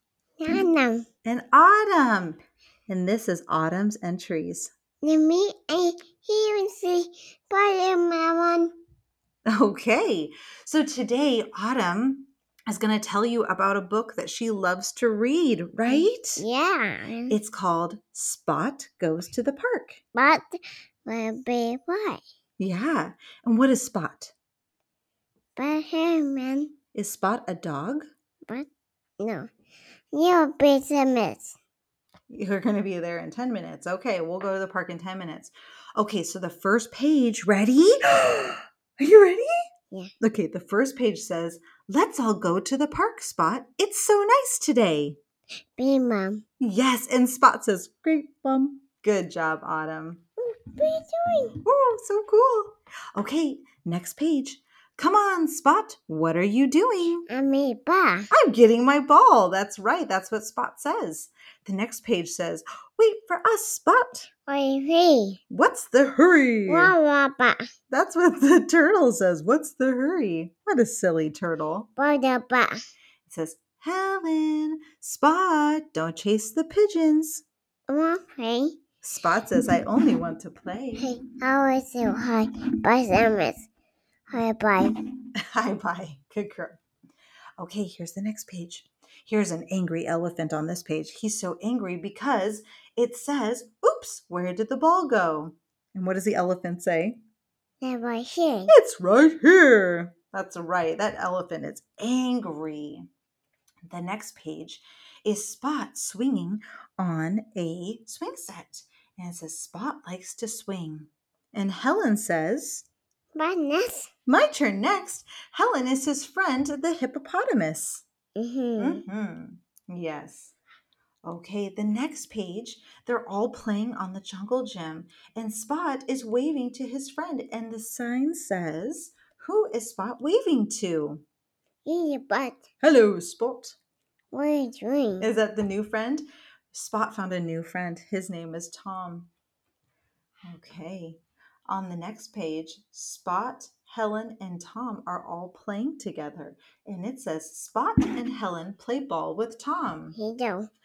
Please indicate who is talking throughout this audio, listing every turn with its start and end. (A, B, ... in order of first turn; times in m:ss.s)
0:00.4-0:01.0 A
0:01.2-0:04.7 B
0:05.0-0:08.7 A
0:09.4-0:16.4 B
0:15.8-0:17.4 A
0:17.3-0:20.0 B
0:20.1-0:22.2 A
0:22.6-0:24.3 B
0:25.6-0:26.7 A
0:26.9-0:28.0 B
0:29.2-0:29.5 A
0:30.1-0:31.6 A
0:32.3-0:39.5 B
0:40.2-0:45.2 B
0:45.8-0:46.4 A
0:46.6-0:50.2 B
0:50.4-0:51.6 A
0:51.6-0:57.3 B
0:57.3-0:58.3 A
0:58.3-1:04.3 B
1:04.5-1:05.4 A
1:05.5-1:06.9 B
1:06.7-1:07.6 A
1:07.9-1:11.9 B
1:12.0-1:12.8 A
1:13.2-1:17.4 B
1:17.9-1:18.8 A
1:19.0-1:21.1 B
1:21.0-1:23.7 A
1:24.3-1:24.9 A
1:25.4-1:26.8 B
1:27.6-1:37.2 B
1:37.8-1:38.7 A
1:38.7-1:43.1 B
1:43.8-1:52.9 B
1:53.3-1:54.1 A
1:54.2-1:58.0 B
1:58.4-1:59.0 A
1:58.8-2:00.5 B
2:01.2-2:11.2 B
2:11.8-2:12.6 A
2:12.8-2:13.8 B
2:14.3-2:15.3 A
2:15.2-2:19.3 B
2:20.4-2:30.2 B
2:30.1-2:30.7 A